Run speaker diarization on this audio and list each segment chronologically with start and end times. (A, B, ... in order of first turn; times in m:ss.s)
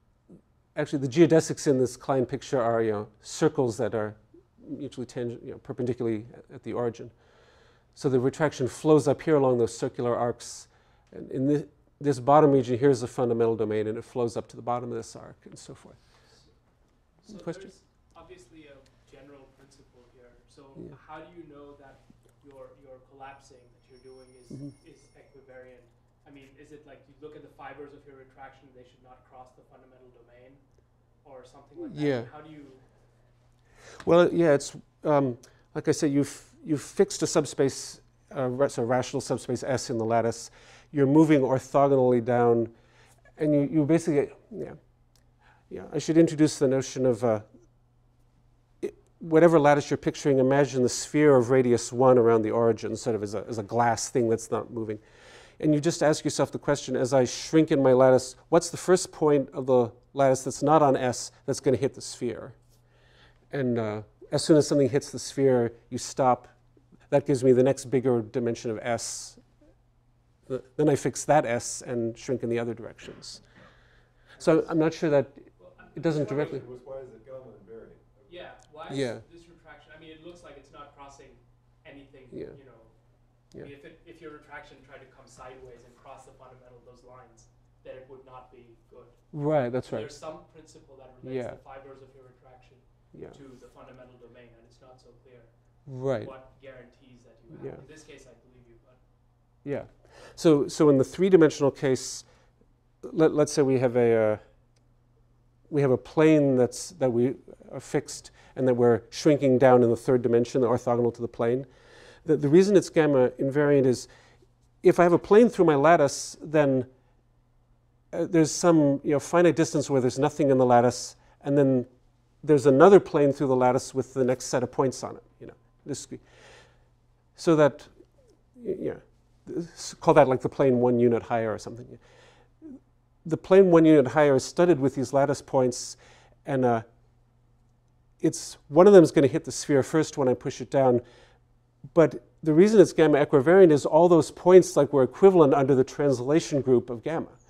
0:00.8-0:07.1 A
0:07.9-0:16.0 A
0:17.2-0:30.6 B
0:17.3-0:17.7 A
0:31.2-0:32.8 B
0:31.9-0:32.3 A
0:34.0-0:42.7 A
0:43.4-0:44.8 A
0:45.7-0:47.4 A
0:48.8-0:55.0 A
0:55.6-1:02.6 A
1:03.5-1:06.5 A
1:07.1-1:09.4 A
1:10.5-1:13.4 A
1:14.4-1:14.6 B
1:14.4-1:15.4 A
1:15.6-1:16.6 B
1:15.9-1:16.6 A
1:16.0-1:18.5 C
1:18.3-1:22.9 B
1:18.9-1:19.2 A
1:23.6-1:29.2 B
1:29.3-1:30.1 A
1:29.8-1:39.0 B
1:31.2-1:31.6 A
1:35.9-1:36.3 A
1:39.6-1:42.3 A
1:43.0-1:44.4 A
1:45.7-1:51.7 A
1:52.2-1:54.1 A
1:54.8-1:56.9 A
1:58.1-2:01.9 A
2:02.4-2:06.2 A
2:07.4-2:07.9 A
2:08.6-2:12.0 A
2:13.2-2:16.8 A
2:18.2-2:21.0 A
2:21.9-2:27.4 A